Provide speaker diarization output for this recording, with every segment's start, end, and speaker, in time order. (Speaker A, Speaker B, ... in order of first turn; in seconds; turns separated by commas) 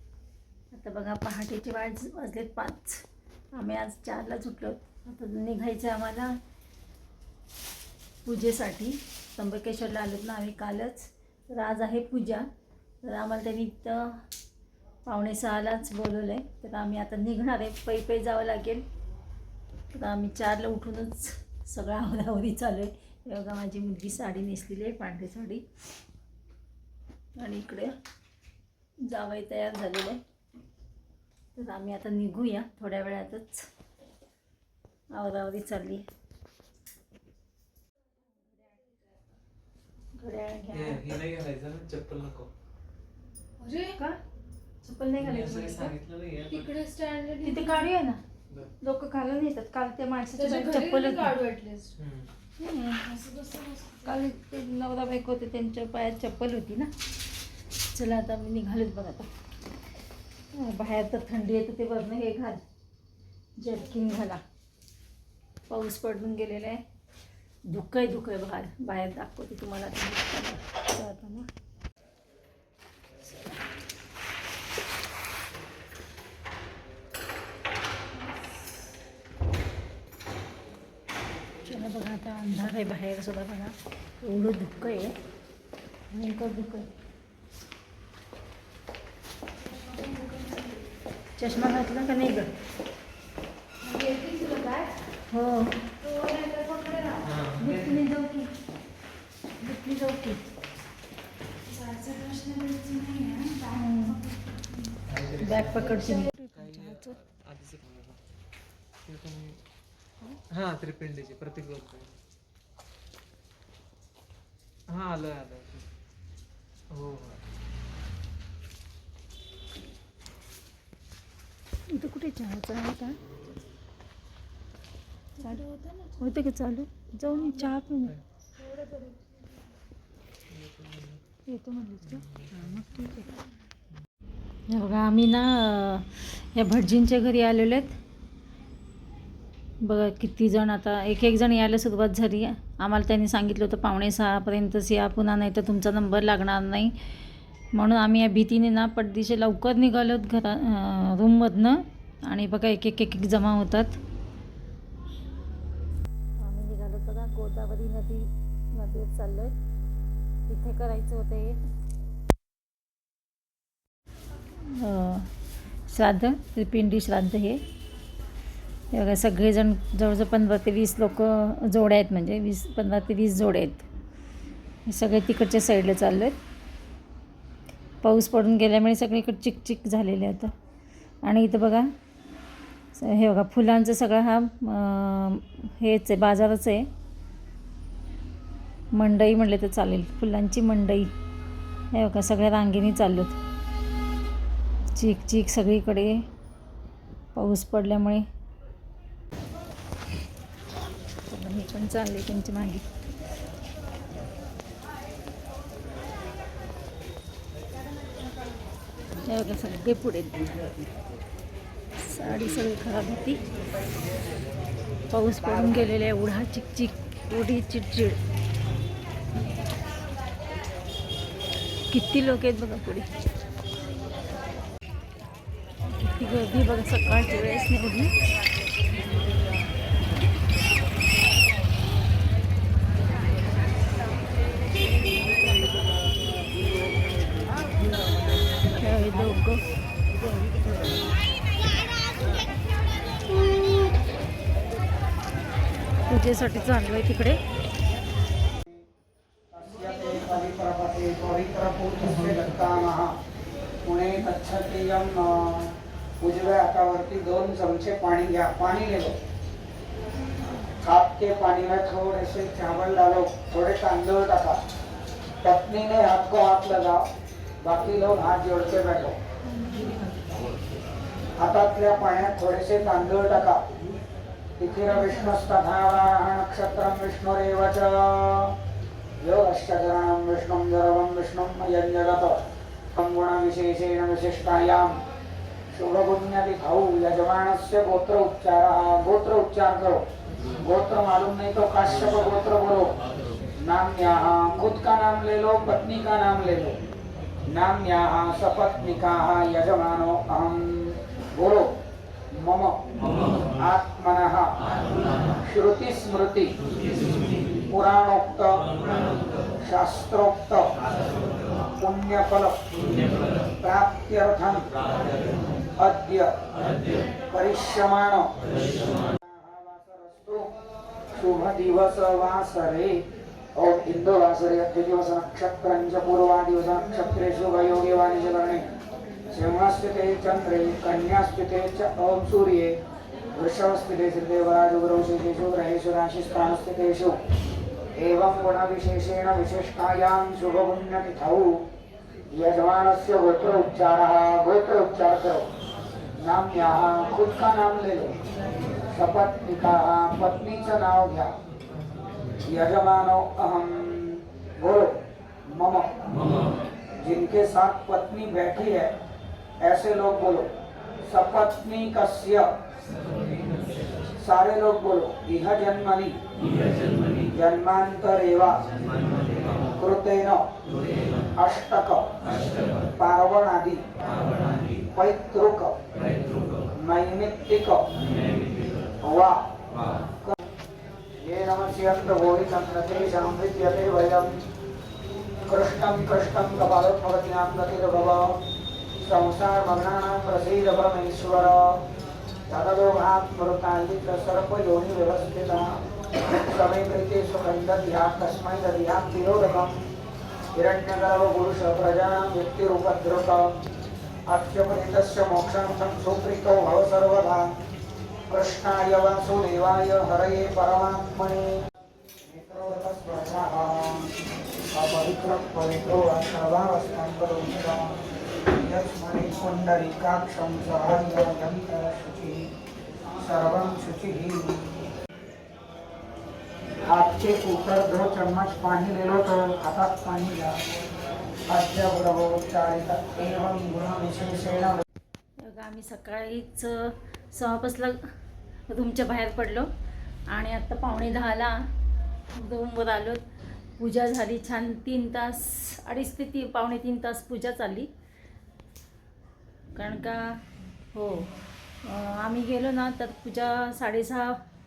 Speaker A: 0.7-6.3, Speaker A: 8.2-12.5, Speaker A: 13.0-14.2, Speaker A: 15.1-18.9, Speaker A: 19.9-25.6, Speaker A: 27.4-27.9, Speaker A: 29.0-30.2, Speaker A: 31.6-33.7, Speaker A: 35.1-36.1, Speaker A: 40.1-41.0, Speaker B: 40.7-42.5, Speaker C: 43.6-44.0, Speaker A: 44.8-45.9, Speaker B: 45.2-46.7, Speaker C: 46.5-47.8, Speaker A: 47.4-48.2, Speaker A: 48.8-51.4, Speaker C: 50.4-51.9, Speaker B: 52.0-52.3, Speaker A: 52.6-53.5, Speaker C: 53.3-54.0, Speaker A: 54.0-56.9, Speaker A: 57.9-59.3, Speaker A: 60.5-62.6, Speaker A: 63.6-64.4, Speaker A: 65.7-66.8, Speaker A: 67.7-71.5, Speaker A: 81.6-85.2, Speaker A: 86.1-86.9, Speaker C: 89.9-90.7, Speaker A: 91.4-92.5, Speaker C: 93.8-95.1, Speaker A: 95.3-95.8, Speaker C: 96.0-97.3, Speaker B: 97.2-98.0, Speaker A: 97.6-98.5, Speaker A: 99.6-100.4, Speaker C: 101.7-103.8, Speaker A: 103.5-104.3, Speaker B: 105.1-106.0, Speaker A: 105.4-107.2, Speaker B: 106.5-108.2, Speaker B: 109.1-109.6, Speaker B: 110.5-112.2, Speaker B: 114.9-115.9, Speaker B: 116.9-117.4, Speaker A: 121.9-123.2, Speaker A: 125.4-128.2, Speaker C: 125.5-126.1, Speaker C: 128.6-129.2, Speaker B: 130.5-131.2, Speaker A: 131.5-133.3, Speaker B: 132.1-132.7, Speaker A: 134.7-138.0, Speaker A: 139.8-146.9, Speaker A: 147.7-154.0, Speaker A: 156.4-159.6, Speaker A: 160.5-161.6, Speaker A: 164.6-165.3, Speaker A: 165.9-167.6, Speaker A: 168.9-173.9, Speaker A: 174.9-176.4, Speaker A: 178.0-180.5, Speaker A: 181.2-181.9, Speaker A: 183.0-186.9, Speaker A: 188.9-191.1, Speaker A: 191.9-193.4, Speaker A: 194.9-196.2, Speaker A: 197.3-198.2, Speaker A: 201.3-202.8, Speaker A: 209.2-210.7, Speaker A: 212.0-213.4, Speaker A: 215.1-218.2, Speaker A: 221.9-223.1, Speaker A: 225.9-228.1, Speaker A: 238.7-239.6, Speaker A: 246.1-247.4, Speaker D: 249.5-253.2, Speaker D: 253.8-259.2, Speaker D: 260.8-264.6, Speaker D: 265.4-267.0, Speaker D: 267.6-269.2, Speaker D: 271.4-273.6, Speaker D: 274.6-278.6, Speaker D: 279.2-282.4, Speaker D: 282.9-285.0, Speaker D: 285.7-290.0, Speaker D: 290.6-292.9, Speaker D: 293.6-296.8, Speaker D: 297.5-301.8, Speaker D: 302.3-302.8, Speaker D: 303.5-304.6, Speaker D: 305.4-306.6, Speaker D: 307.7-308.7, Speaker D: 309.6-310.7, Speaker D: 311.8-312.7, Speaker D: 313.6-314.7, Speaker D: 315.8-316.4, Speaker D: 317.3-318.3, Speaker D: 319.0-320.5, Speaker D: 321.1-328.7, Speaker D: 329.3-332.8, Speaker D: 333.4-337.2, Speaker D: 338.0-341.6, Speaker D: 342.3-345.5, Speaker D: 346.2-348.1, Speaker D: 348.9-351.3, Speaker D: 352.5-356.0, Speaker D: 357.0-358.9, Speaker D: 359.6-360.5, Speaker D: 361.1-362.5, Speaker D: 364.2-366.2, Speaker D: 367.3-368.6, Speaker D: 369.8-370.4, Speaker D: 371.4-372.2, Speaker D: 373.0-373.8, Speaker D: 374.9-375.8, Speaker D: 376.8-377.9, Speaker D: 379.0-379.5, Speaker D: 381.2-384.4, Speaker D: 385.5-388.4, Speaker D: 389.0-391.8, Speaker D: 392.5-399.8, Speaker D: 400.5-403.6, Speaker D: 404.3-407.5, Speaker D: 408.3-411.6, Speaker D: 412.2-414.1, Speaker D: 414.7-418.0, Speaker D: 418.6-422.5, Speaker D: 423.2-424.8, Speaker D: 426.8-430.6, Speaker D: 431.5-434.8, Speaker A: 435.4-438.0, Speaker A: 438.7-439.7, Speaker A: 440.3-441.6, Speaker A: 442.3-443.2, Speaker A: 443.8-447.9, Speaker A: 449.7-450.4, Speaker A: 450.9-451.3, Speaker A: 451.9-454.4